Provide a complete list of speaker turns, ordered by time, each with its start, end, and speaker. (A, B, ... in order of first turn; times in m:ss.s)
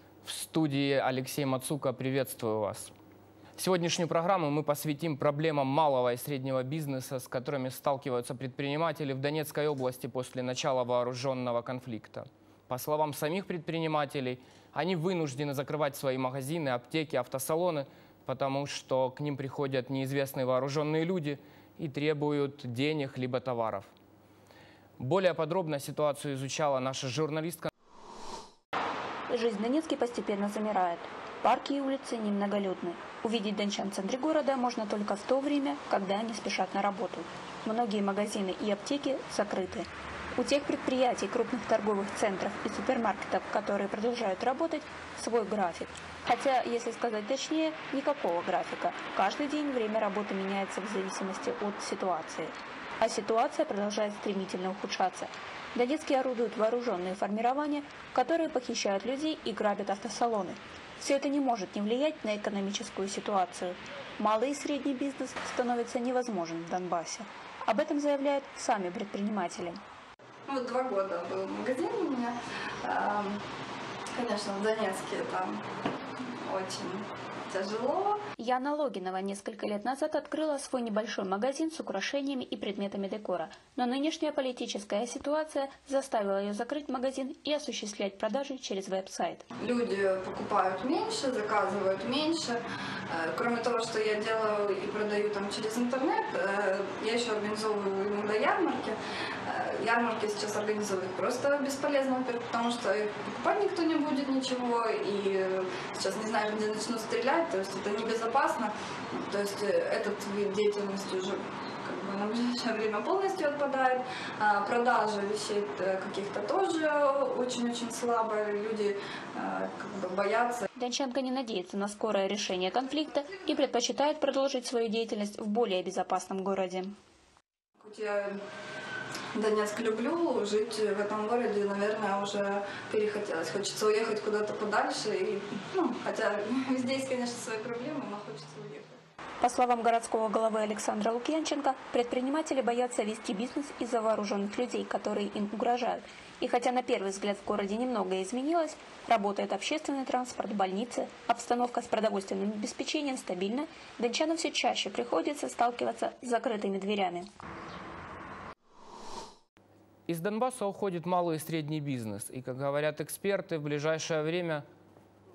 0:00.2-0:02.9 A
0:03.6-0:23.9 A
0:25.0-0:27.7 A
0:29.3-1:09.8 B
1:10.5-1:13.4 C
1:14.1-1:15.6 C
1:16.2-1:18.2 C
1:18.4-1:29.4 B
1:29.6-2:00.6 C
2:00.8-2:06.9 B
2:07.8-2:08.4 C
2:09.3-2:19.0 C
2:19.4-2:37.3 B
2:40.1-2:44.6 A